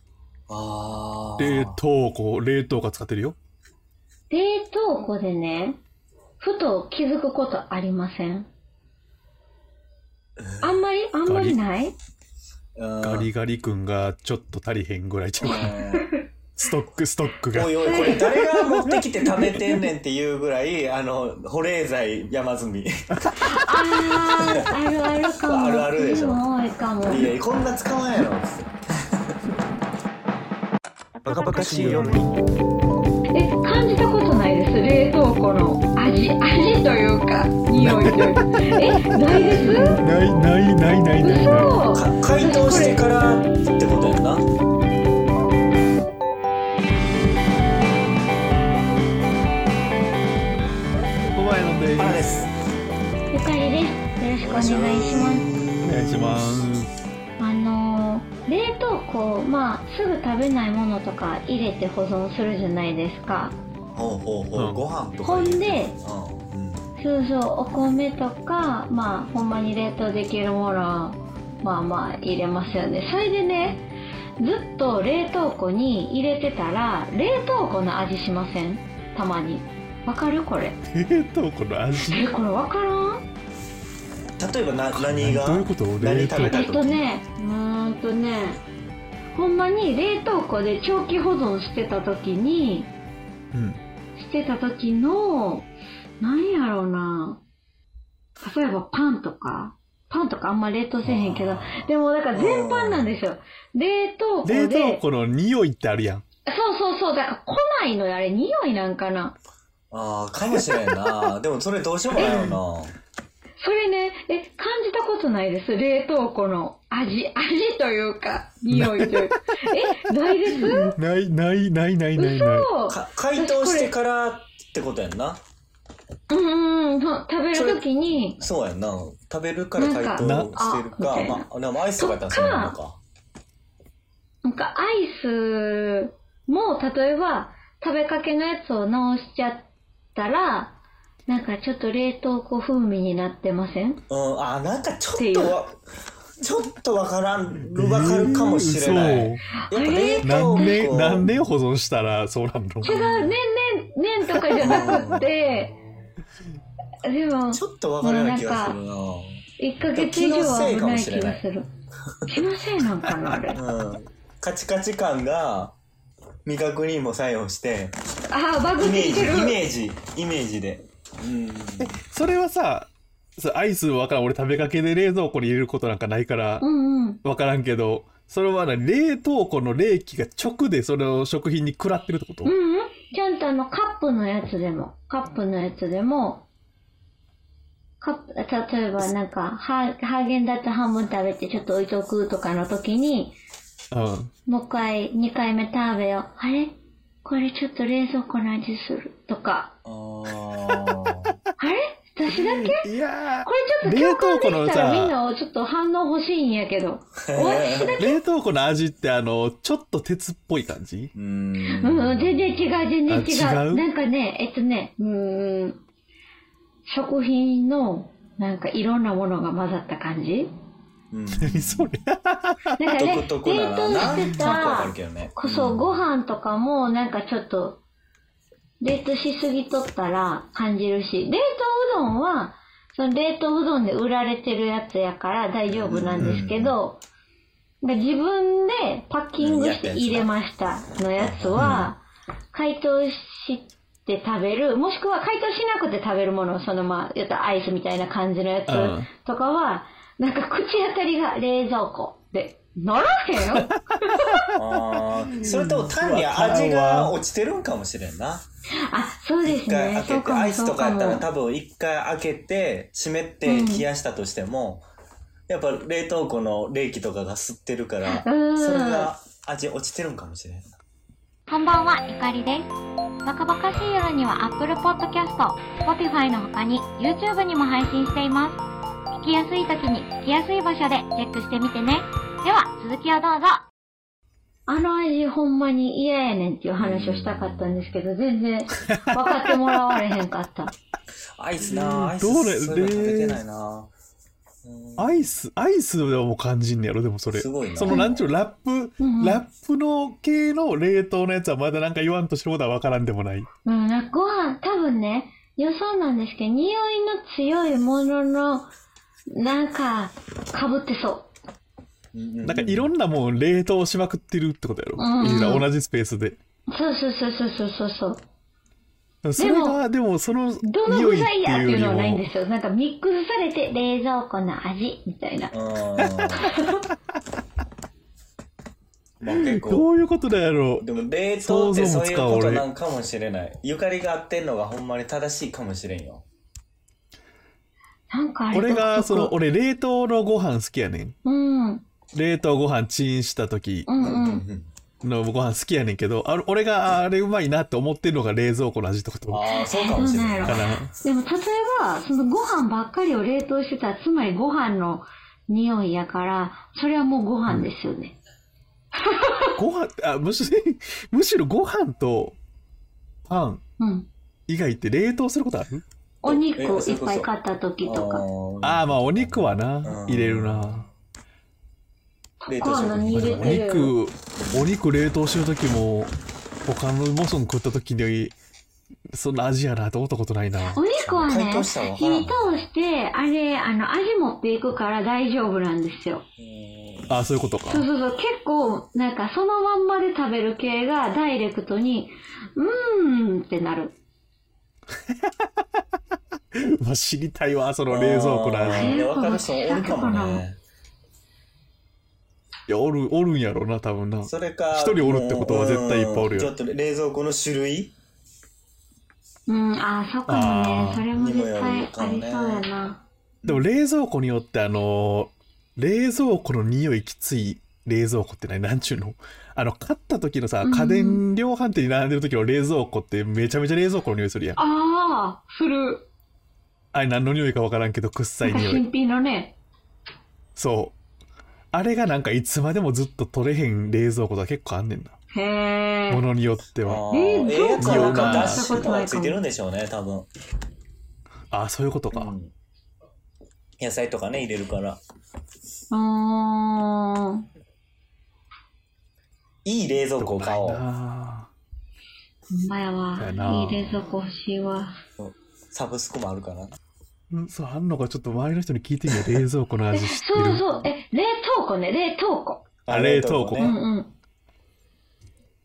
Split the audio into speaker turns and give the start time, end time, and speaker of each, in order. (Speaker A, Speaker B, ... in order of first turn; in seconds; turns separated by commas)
Speaker A: 0.5-1.8, Speaker B: 1.4-3.4, Speaker C: 4.3-5.8, Speaker C: 6.4-8.5, Speaker A: 10.4-10.8, Speaker C: 10.6-12.0, Speaker B: 11.2-11.6, Speaker A: 12.8-13.3, Speaker B: 13.0-15.8, Speaker A: 15.4-16.1, Speaker C: 15.4-16.3, Speaker B: 16.6-19.9, Speaker A: 17.5-22.9, Speaker C: 17.8-18.3, Speaker B: 23.2-24.0, Speaker C: 23.5-27.3, Speaker A: 24.3-24.7, Speaker A: 25.5-26.4, Speaker A: 27.1-28.8, Speaker B: 31.2-32.3, Speaker A: 31.2-32.2, Speaker C: 33.3-40.0, Speaker B: 37.8-41.8, Speaker C: 41.2-43.1, Speaker A: 41.9-44.5, Speaker B: 51.3-52.2, Speaker A: 52.0-52.5, Speaker C: 53.3-55.5, Speaker A: 54.4-56.7, Speaker B: 55.8-56.9, Speaker C: 57.4-63.5, Speaker A: 63.9-66.9, Speaker B: 64.6-64.8, Speaker C: 65.2-65.9, Speaker C: 67.0-73.9, Speaker C: 74.4-80.8, Speaker B: 80.9-82.3, Speaker C: 82.0-83.2, Speaker A: 84.4-87.0, Speaker B: 85.0-86.6, Speaker C: 86.4-88.6, Speaker C: 89.3-92.9, Speaker B: 93.5-93.8, Speaker C: 94.2-95.7, Speaker C: 96.2-97.4, Speaker C: 98.4-105.0, Speaker A: 101.1-103.2, Speaker B: 104.4-106.2, Speaker C: 106.5-109.4, Speaker A: 109.9-113.0, Speaker B: 112.2-112.6, Speaker C: 113.6-121.0, Speaker B: 118.7-119.3, Speaker B: 120.6-122.7, Speaker C: 122.2-123.9, Speaker A: 122.9-125.4, Speaker C: 126.3-128.4, Speaker A: 127.5-127.8, Speaker A: 128.4-133.0, Speaker C: 129.8-131.5, Speaker B: 130.2-130.6, Speaker C: 132.0-132.8, Speaker C: 134.4-144.0, Speaker A: 144.1-145.8, Speaker C: 145.2-145.6, Speaker A: 146.4-151.4, Speaker B: 147.7-149.5, Speaker C: 149.6-150.9, Speaker B: 150.2-153.0, Speaker C: 152.8-155.8, Speaker A: 152.8-153.3, Speaker A: 154.6-155.3, Speaker C: 157.0-158.8, Speaker A: 157.5-159.4, Speaker C: 159.6-161.7, Speaker A: 159.9-161.4, Speaker C: 162.3-163.6, Speaker A: 163.5-165.8, Speaker A: 166.4-168.0, Speaker C: 168.3-169.6, Speaker A: 168.8-171.9, Speaker B: 171.8-176.7, Speaker C: 176.6-177.2, Speaker B: 177.2-182.5, Speaker C: 182.4-186.5, Speaker C: 188.0-193.3, Speaker B: 193.9-194.3, Speaker C: 194.5-199.7, Speaker A: 199.8-201.3, Speaker C: 201.6-202.8, Speaker B: 202.3-205.2, Speaker C: 203.4-208.2, Speaker A: 207.3-208.0, Speaker B: 208.0-211.1, Speaker A: 211.1-212.9, Speaker C: 211.7-215.8, Speaker B: 213.1-213.8, Speaker C: 216.9-220.5, Speaker A: 221.1-221.9, Speaker B: 221.4-222.9, Speaker C: 222.8-227.8, Speaker A: 223.0-226.0, Speaker B: 224.1-224.6, Speaker C: 228.8-237.0, Speaker A: 235.7-236.8, Speaker B: 236.2-236.5, Speaker C: 237.8-254.4, Speaker A: 239.4-240.3, Speaker A: 241.2-241.9, Speaker B: 241.6-241.9, Speaker B: 248.7-249.1, Speaker B: 254.2-254.6, Speaker A: 254.6-258.4, Speaker B: 255.2-257.1, Speaker C: 258.8-261.3, Speaker A: 259.4-264.9, Speaker C: 263.4-263.9, Speaker A: 265.5-270.7, Speaker C: 268.1-269.1, Speaker D: 271.5-272.7, Speaker D: 273.2-278.6, Speaker D: 279.2-283.6, Speaker C: 284.7-290.7, Speaker A: 286.8-288.0, Speaker B: 288.9-289.8, Speaker A: 291.4-293.9, Speaker B: 291.7-293.4, Speaker A: 294.6-295.3, Speaker B: 295.0-303.5, Speaker A: 297.3-298.1, Speaker C: 297.9-298.1, Speaker C: 299.0-299.4, Speaker C: 303.6-308.7, Speaker C: 309.3-311.3, Speaker A: 312.1-312.9, Speaker B: 312.4-316.4, Speaker C: 315.0-315.7, Speaker C: 316.7-318.2, Speaker B: 319.2-322.2, Speaker C: 319.4-319.8, Speaker C: 320.6-325.5, Speaker A: 325.5-326.5, Speaker C: 326.4-326.9, Speaker A: 329.2-329.9, Speaker B: 329.2-330.9, Speaker A: 330.8-336.2, Speaker B: 331.4-332.7, Speaker C: 338.1-339.3, Speaker B: 338.5-341.2, Speaker C: 341.2-341.9, Speaker B: 342.1-343.9, Speaker C: 343.9-344.4, Speaker A: 344.0-344.7, Speaker B: 345.0-349.4, Speaker A: 349.3-350.7, Speaker C: 349.7-358.2, Speaker B: 350.0-350.9, Speaker C: 359.0-359.6, Speaker B: 359.6-362.4, Speaker B: 363.3-363.6, Speaker C: 363.8-364.1, Speaker B: 364.5-365.8, Speaker C: 366.2-368.3, Speaker A: 366.2-367.3, Speaker A: 367.8-370.9, Speaker B: 368.6-370.9, Speaker C: 372.4-373.9, Speaker A: 372.5-373.6, Speaker B: 373.1-376.1, Speaker B: 376.6-378.4, Speaker B: 379.1-380.8, Speaker C: 380.7-386.2, Speaker A: 381.0-382.6, Speaker A: 386.4-387.2, Speaker B: 387.1-387.9, Speaker C: 387.7-394.0, Speaker B: 396.6-399.1, Speaker A: 397.9-400.6, Speaker C: 398.7-400.4, Speaker B: 402.7-406.5, Speaker A: 404.2-407.9, Speaker C: 409.5-413.0, Speaker B: 410.3-411.1, Speaker A: 411.1-412.6, Speaker B: 413.5-424.6, Speaker C: 420.6-421.2, Speaker C: 424.6-426.1, Speaker B: 426.9-428.8, Speaker C: 428.4-429.6, Speaker B: 430.6-431.0, Speaker B: 431.7-435.1, Speaker C: 435.3-436.2, Speaker B: 436.1-437.0, Speaker A: 436.9-440.3, Speaker C: 437.1-439.4, Speaker B: 437.8-438.9, Speaker B: 441.5-442.3, Speaker A: 442.1-442.5, Speaker A: 443.8-445.0, Speaker C: 445.9-447.4, Speaker A: 449.6-450.8, Speaker B: 450.2-451.5, Speaker C: 452.5-454.9, Speaker B: 453.2-454.0, Speaker A: 455.2-456.7, Speaker B: 457.3-460.8, Speaker C: 459.9-462.7, Speaker A: 462.9-463.8, Speaker B: 462.9-463.8, Speaker C: 463.6-464.1